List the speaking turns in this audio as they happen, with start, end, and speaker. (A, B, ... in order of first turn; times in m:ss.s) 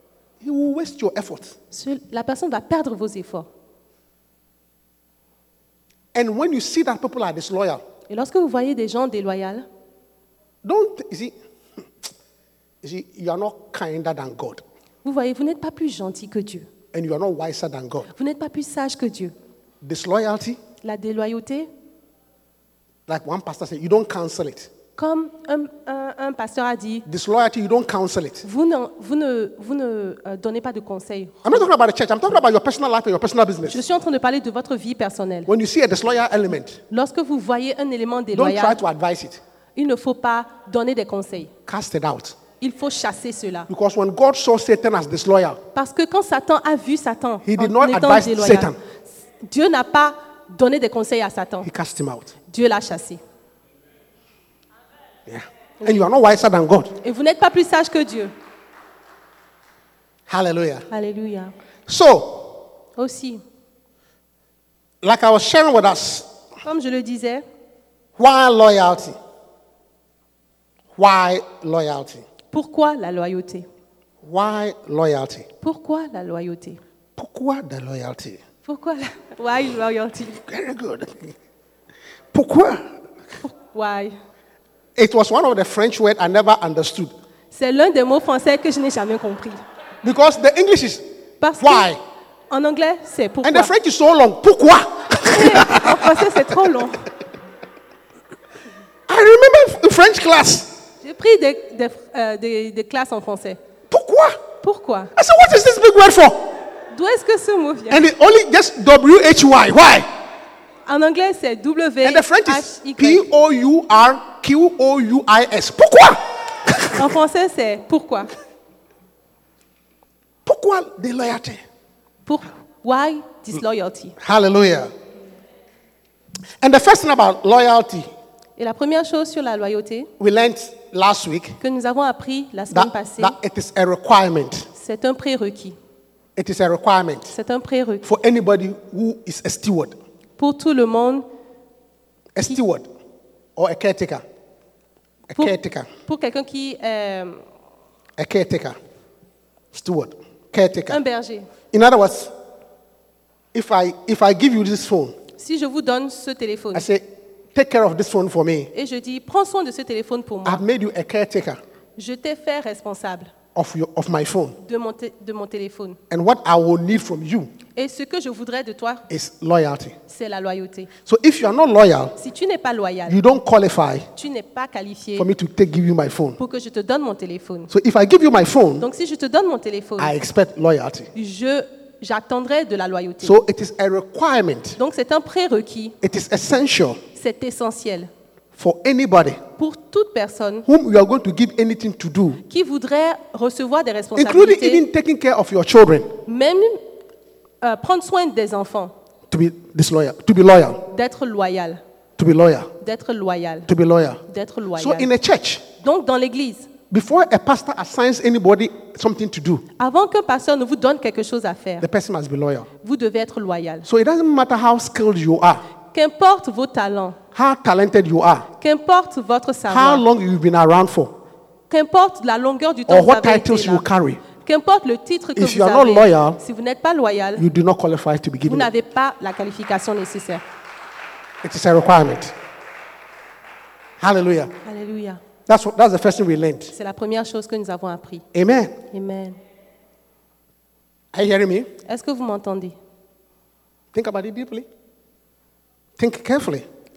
0:00.4-0:01.6 A
0:01.7-0:03.5 B
0:06.1-0:07.8 A
0:08.1-0:09.6 B
0:10.6-0:11.3 A
0:12.8-0:14.6 A
0:15.0-0:16.6 B
0:16.9-0:18.1 A
0:18.1-0:19.3 B
0:19.8-0:20.6 A
0:20.8-0:21.7 B
0:23.1-0:24.7 A
0:25.0-0:27.0 B
0:27.0-0:28.4 A
0:28.4-0:31.5 B
0:31.4-0:33.8 A
0:33.7-0:35.5 B
0:35.5-0:36.8 A
0:36.9-0:38.8 B
0:38.3-0:39.4 A
0:39.8-0:41.5 B
0:41.7-0:42.4 A
0:42.6-0:43.7 B
0:43.7-0:45.6 A
0:45.7-0:48.7 B
0:47.4-0:48.8 A
0:49.4-0:51.7 B
0:51.6-0:52.3 A
0:52.5-0:53.2 B
0:55.3-0:57.0 A
0:57.0-0:58.3 B
1:00.3-1:00.9 A
1:00.9-1:01.5 B
1:01.9-1:02.6 A
1:03.0-1:03.4 B
1:05.0-1:06.3 A
1:06.6-1:07.4 B
1:08.2-1:09.2 A
1:11.0-1:12.2 A
1:12.5-1:13.7 B
1:14.2-1:15.5 A
1:15.6-1:16.8 B
1:17.2-1:18.4 A
1:18.6-1:20.4 B
1:20.3-1:21.4 A
1:22.3-1:22.9 A
1:23.4-1:24.2 B
1:25.0-1:27.1 A
1:27.5-1:29.6 B
1:30.0-1:31.0 A
1:31.4-1:31.9 B
1:31.6-1:32.0 A
1:32.5-1:33.7 B
1:33.4-1:36.4 A
1:35.2-1:37.0 B
1:39.1-1:40.7 A
1:41.0-1:43.6 B
1:43.9-1:44.4 A
1:44.6-1:45.1 B
1:45.1-1:46.5 A
1:46.9-1:48.0 B
1:47.9-1:50.1 A
1:50.8-1:53.3 B
1:52.0-1:57.0 A
1:56.9-1:58.3 B
2:00.4-2:01.6 A
2:02.2-2:04.2 B
2:04.2-2:04.9 A
2:06.6-2:08.1 A
2:08.6-2:10.1 B
2:10.2-2:11.6 A
2:11.6-2:13.4 B
2:12.7-2:14.7 A
2:14.7-2:15.8 B
2:16.4-2:17.3 A
2:17.3-2:18.1 B
2:18.0-2:20.0 A
2:20.4-2:21.2 B
2:22.3-2:22.9 A
2:23.6-2:24.2 A
2:25.3-2:25.9 A
2:26.0-2:27.4 B
2:28.2-2:28.8 A
2:29.7-2:31.0 A
2:30.9-2:31.5 B
2:31.7-2:32.3 A
2:33.5-2:35.1 A
2:35.4-2:36.8 B
2:36.7-2:38.7 A
2:38.7-2:40.6 B
2:40.4-2:41.6 A
2:42.0-2:43.3 B
2:43.5-2:44.6 A
2:44.6-2:46.0 B
2:46.1-2:47.5 A
2:47.7-2:49.0 B
2:49.1-2:50.0 A
2:50.1-2:50.9 B
2:51.0-2:52.2 A
2:52.2-2:53.2 B
2:53.1-2:54.1 A
2:54.1-2:55.3 B
2:55.2-2:56.4 A
2:56.4-2:57.7 B
2:57.7-2:58.9 A
2:58.8-3:00.1 B
3:00.0-3:01.1 A
3:01.1-3:03.4 B
3:03.2-3:04.8 A
3:04.8-3:06.0 B
3:06.0-3:07.0 A
3:07.1-3:08.1 B
3:08.6-3:09.4 A
3:09.6-3:10.6 B
3:10.6-3:12.4 A
3:12.5-3:14.8 B
3:14.2-3:16.1 A
3:16.2-3:16.8 B
3:17.6-3:18.9 B
3:19.3-3:20.8 A
3:20.9-3:21.8 B
3:22.2-3:22.7 A
3:22.8-3:23.7 B
3:23.7-3:24.2 A
3:24.3-3:25.1 B
3:24.8-3:25.6 A
3:25.8-3:26.7 B
3:26.9-3:29.6 A
3:29.8-3:31.9 B
3:31.8-3:32.7 A
3:32.8-3:33.8 B
3:33.8-3:35.6 A
3:35.9-3:37.2 B
3:37.3-3:38.5 A
3:38.6-3:40.0 B
3:39.7-3:41.1 A
3:41.7-3:43.8 B
3:42.9-3:44.2 A
3:44.4-3:47.4 B
3:45.4-3:46.4 A
3:47.4-3:48.7 A
3:48.4-3:50.4 B
3:51.4-3:52.3 A
3:54.0-3:54.5 A
3:54.6-3:55.2 B
3:55.5-3:56.7 A
3:56.7-3:58.2 B
3:58.3-3:58.8 A
3:58.9-3:59.4 B
4:01.1-4:01.7 A
4:01.8-4:02.7 B
4:03.9-4:04.7 A
4:06.0-4:06.7 A